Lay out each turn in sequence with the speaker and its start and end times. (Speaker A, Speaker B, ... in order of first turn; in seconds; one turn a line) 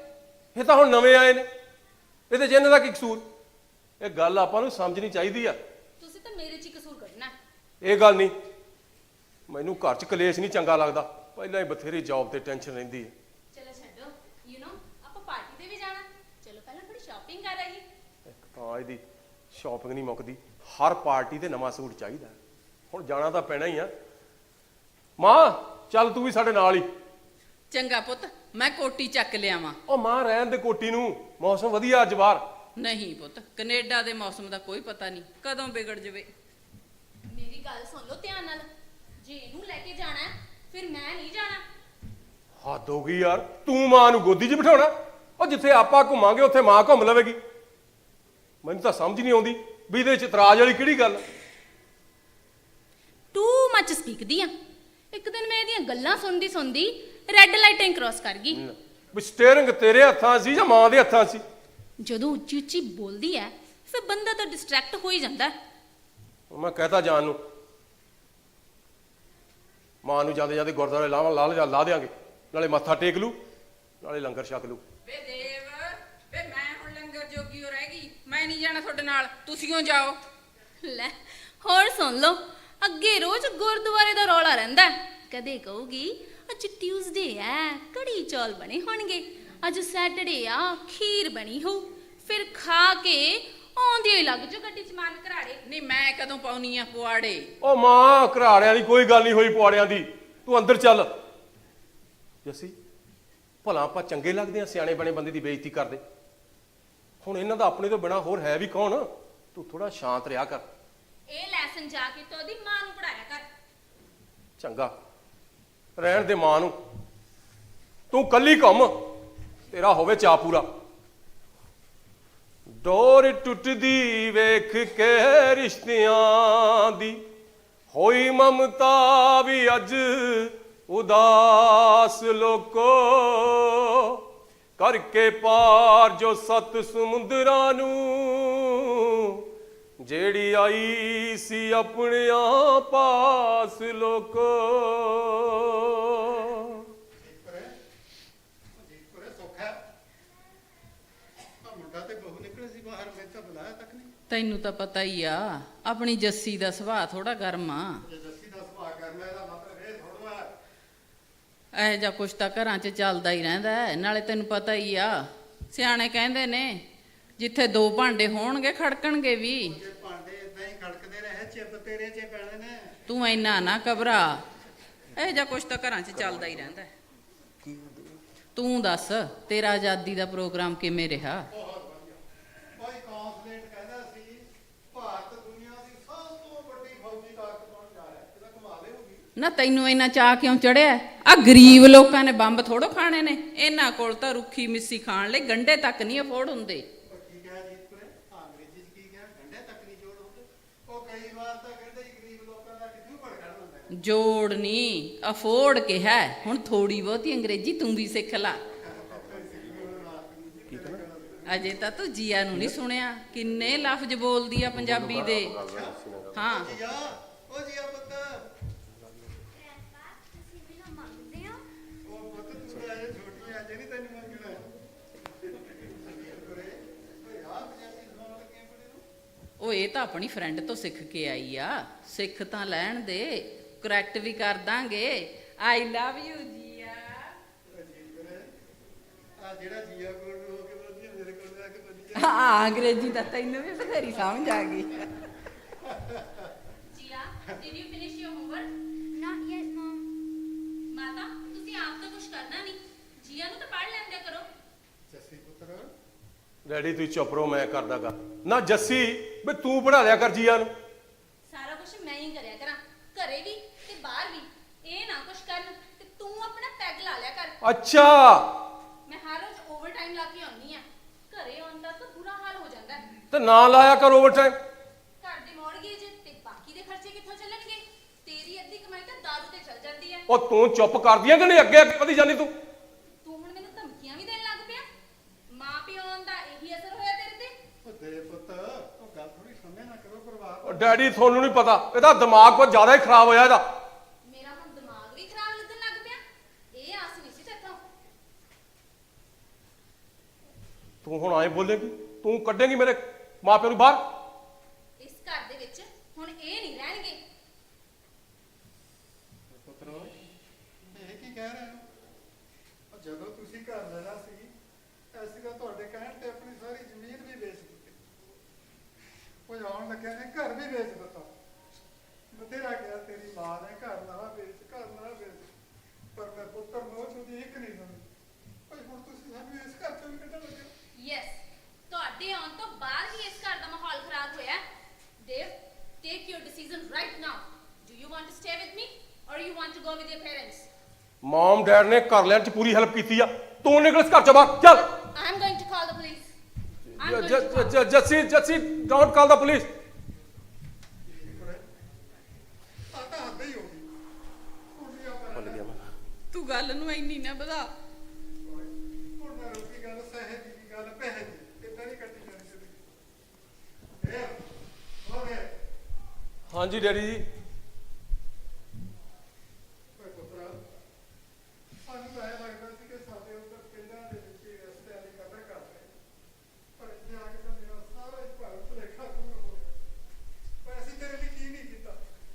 Speaker A: 0.5-1.5
Speaker A: 2.3-3.2
Speaker A: 4.0-5.6
Speaker B: 6.0-7.3
Speaker A: 7.8-8.3
Speaker A: 9.5-13.1
Speaker B: 13.5-17.8
Speaker A: 18.4-19.0
Speaker A: 19.5-22.4
Speaker A: 22.9-23.9
Speaker A: 25.2-26.9
Speaker C: 27.7-29.8
Speaker A: 29.9-32.4
Speaker C: 32.8-36.3
Speaker B: 37.3-38.7
Speaker B: 39.2-41.6
Speaker A: 42.6-47.4
Speaker A: 48.6-51.2
Speaker B: 53.3-54.5
Speaker B: 55.1-58.6
Speaker A: 58.5-61.4
Speaker B: 62.0-65.5
Speaker A: 66.5-67.4
Speaker A: 70.0-73.4
Speaker A: 74.0-74.8
Speaker C: 75.1-80.2
Speaker B: 80.8-95.6
Speaker C: 95.6-97.5
Speaker A: 97.6-101.1
Speaker A: 102.4-102.7
Speaker A: 103.6-106.0
Speaker A: 107.2-110.6
Speaker B: 111.3-113.5
Speaker A: 114.6-114.9
Speaker A: 116.0-116.7
Speaker A: 118.1-118.9
Speaker A: 119.7-120.7
Speaker A: 122.8-127.2
Speaker A: 127.9-134.2
Speaker A: 134.8-139.4
Speaker A: 140.0-146.8
Speaker D: 147.2-147.8
Speaker D: 148.8-149.8
Speaker D: 151.6-154.1
Speaker C: 154.3-158.0
Speaker D: 158.1-160.5
Speaker C: 161.7-166.8
Speaker C: 167.4-169.8
Speaker D: 169.6-173.0
Speaker C: 173.1-174.4
Speaker C: 175.2-176.9
Speaker A: 177.6-178.2
Speaker C: 178.5-181.5
Speaker D: 181.5-182.2
Speaker D: 182.7-189.2
Speaker C: 189.4-196.8
Speaker D: 197.0-203.9
Speaker C: 203.9-208.6
Speaker D: 208.8-211.4
Speaker A: 210.7-211.0
Speaker C: 211.5-215.6
Speaker A: 214.7-216.5
Speaker D: 215.6-216.0
Speaker C: 216.3-216.7
Speaker D: 216.5-218.4
Speaker E: 219.5-221.6
Speaker D: 222.0-224.6
Speaker D: 225.4-229.0
Speaker C: 229.6-237.3
Speaker D: 237.7-238.6
Speaker D: 239.4-242.4
Speaker C: 242.2-245.1
Speaker D: 245.8-246.5
Speaker B: 246.9-248.7
Speaker E: 249.1-250.1
Speaker B: 250.9-254.5
Speaker D: 255.1-255.9
Speaker A: 256.7-260.7
Speaker B: 261.5-267.5
Speaker A: 267.6-268.5
Speaker B: 269.1-273.1
Speaker A: 273.3-274.6
Speaker B: 275.2-280.2
Speaker A: 280.3-282.5
Speaker B: 283.2-284.9
Speaker B: 285.5-287.5
Speaker D: 287.8-291.1
Speaker A: 290.6-293.6
Speaker B: 294.2-296.2
Speaker B: 296.7-297.8
Speaker A: 301.0-304.0
Speaker B: 305.0-307.2
Speaker D: 309.5-310.1
Speaker D: 310.9-311.9
Speaker D: 312.9-314.5
Speaker D: 315.1-318.0
Speaker D: 319.4-321.3
Speaker D: 322.3-325.5
Speaker D: 326.1-328.1
Speaker D: 328.7-330.7
Speaker B: 331.0-334.6
Speaker B: 335.2-340.7
Speaker A: 341.2-344.8
Speaker B: 345.1-346.3
Speaker A: 347.0-349.7
Speaker B: 347.0-347.8
Speaker D: 351.1-351.6
Speaker D: 352.9-353.9
Speaker D: 354.7-355.7
Speaker A: 355.3-355.8
Speaker C: 356.3-357.7
Speaker D: 358.4-362.9
Speaker D: 364.0-364.4
Speaker D: 365.0-365.5
Speaker A: 366.5-367.2
Speaker D: 369.9-370.6
Speaker D: 371.8-375.9
Speaker D: 376.8-379.7
Speaker D: 380.6-382.0